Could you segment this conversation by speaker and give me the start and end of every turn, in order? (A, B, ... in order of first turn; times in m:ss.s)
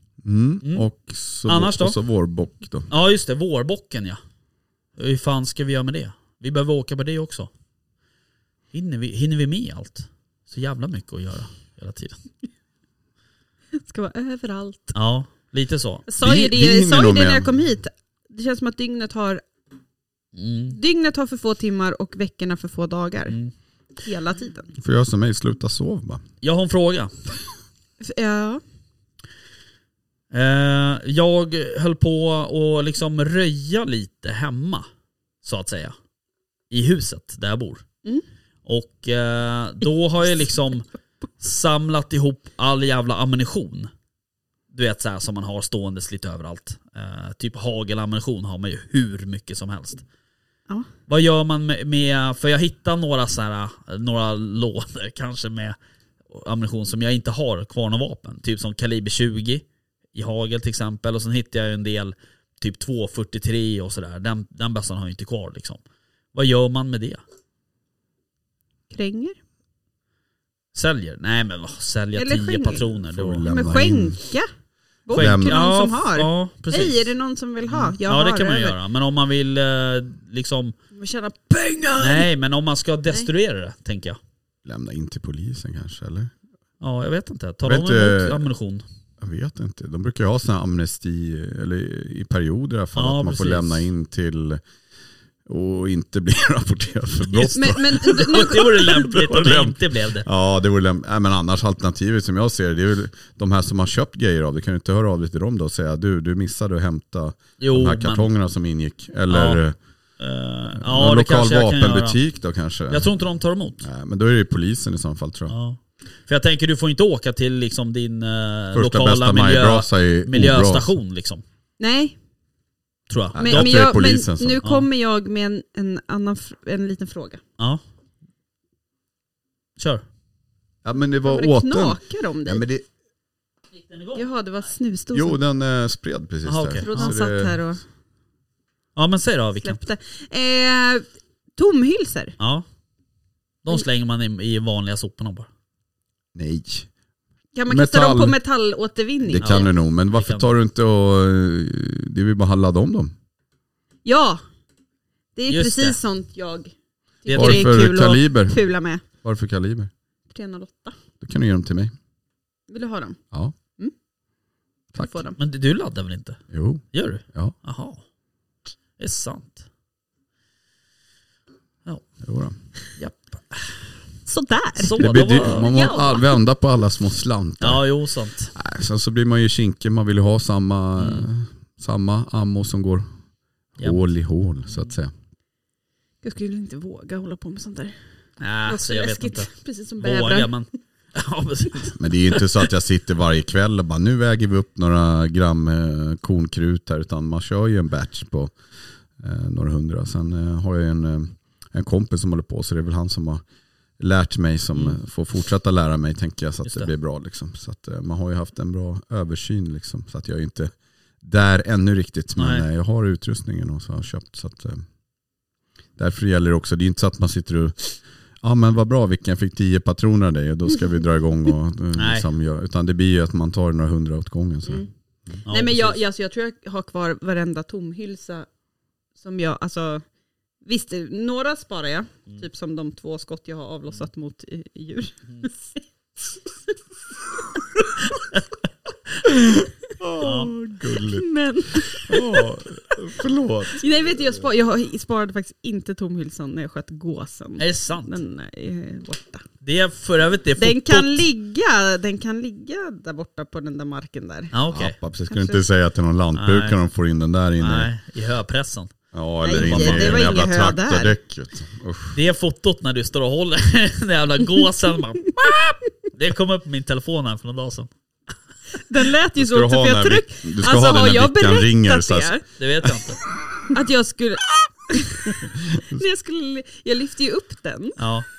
0:00.2-0:02.9 A
0:01.5-0:02.0 B
0:02.9-0:04.2 B
0:05.0-0:07.5 B
0:08.7-0:12.2 B
0:13.7-0:15.0 C
0:14.9-0:16.0 B
0:16.1-0:19.4 C
0:16.2-0:17.5 A
0:20.3-0:20.8 B
0:20.7-0:23.4 C
0:24.0-0:24.7 C
0:24.7-0:26.2 A
0:26.4-0:27.1 B
0:28.0-0:28.6 C
0:30.3-0:34.8 B
0:35.4-0:36.0 B
0:36.7-0:37.8 B
0:38.6-0:40.9 B
0:41.4-0:43.9 B
0:44.7-0:50.0 B
0:51.1-0:55.8 B
0:56.3-0:59.6 B
1:00.1-1:05.8 B
1:06.3-1:07.2 B
1:08.9-1:09.4 C
1:10.7-1:13.5 B
1:12.2-1:12.9 C
1:13.1-1:14.2 A
1:13.4-1:14.5 C
1:15.1-1:18.8 C
1:15.1-1:17.1 B
1:15.1-1:15.6 A
1:17.7-1:20.7 B
1:20.9-1:22.3 C
1:22.0-1:24.2 B
1:24.6-1:26.3 A
1:26.8-1:28.8 B
1:27.6-1:28.4 A
1:29.2-1:34.6 A
1:32.9-1:33.8 B
1:35.4-1:38.4 A
1:37.3-1:40.2 B
1:37.5-1:39.3 C
1:39.1-1:49.8 A
1:47.6-1:48.3 B
1:49.3-1:49.6 B
1:50.2-1:52.2 B
1:50.8-1:53.1 A
1:52.9-1:53.8 B
1:53.8-1:55.6 A
1:55.5-2:01.4 B
1:58.7-2:00.9 A
2:01.8-2:02.2 C
2:03.1-2:03.8 B
2:03.3-2:04.6 A
2:03.4-2:07.4 C
2:09.8-2:10.0 B
2:10.8-2:12.8 A
2:11.2-2:12.6 C
2:13.7-2:14.2 B
2:14.1-2:15.4 C
2:15.1-2:17.6 A
2:16.4-2:17.1 B
2:16.8-2:17.8 C
2:19.0-2:19.8 B
2:19.6-2:22.3 C
2:22.4-2:22.6 B
2:23.6-2:25.5 B
2:26.3-2:26.9 A
2:27.5-2:29.7 C
2:27.7-2:28.4 A
2:29.3-2:33.1 A
2:29.4-2:30.5 B
2:34.0-2:34.4 C
2:35.4-2:36.7 C
2:35.5-2:36.0 B
2:37.2-2:39.0 C
2:37.2-2:37.8 B
2:37.3-2:38.6 A
2:39.2-2:39.9 A
2:40.3-2:40.9 C
2:41.2-2:41.9 A
2:42.7-2:43.2 C
2:44.9-2:45.2 A
2:45.0-2:45.4 C
2:45.4-2:46.4 B
2:46.5-2:47.5 A
2:46.9-2:48.0 B
2:49.0-2:49.6 B
2:52.2-2:52.5 A
2:53.0-2:53.8 B
2:54.2-2:56.3 C
2:54.8-2:55.7 B
2:55.0-2:57.8 A
2:57.6-2:58.5 B
2:58.5-3:03.0 A
3:01.0-3:01.3 B
3:03.8-3:05.1 A
3:06.2-3:08.0 C
3:08.4-3:12.0 B
3:08.6-3:10.5 C
3:11.9-3:18.5 A
3:19.2-3:23.4 A
3:24.0-3:34.8 A
3:32.4-3:32.6 B
3:36.0-3:45.4 A
3:42.0-3:42.2 B
3:45.4-3:46.0 B
3:45.4-3:48.5 C
3:49.2-3:50.0 C
3:50.6-3:55.8 C
4:00.0-4:01.2 A
4:00.2-4:00.5 B
4:01.1-4:02.2 C
4:02.1-4:04.4 A
4:03.7-4:09.4 C
4:07.6-4:08.1 B
4:09.6-4:11.2 B
4:10.6-4:14.5 C
4:14.5-4:14.9 B
4:14.7-4:17.9 A
4:15.3-4:15.6 C
4:16.3-4:16.8 B
4:17.6-4:18.9 B
4:19.1-4:22.2 A
4:19.4-4:21.1 C
4:19.5-4:20.2 B
4:22.1-4:27.9 B
4:28.8-4:32.4 C
4:29.4-4:32.3 A
4:32.6-4:33.2 B
4:33.7-4:38.0 C
4:38.0-4:38.2 B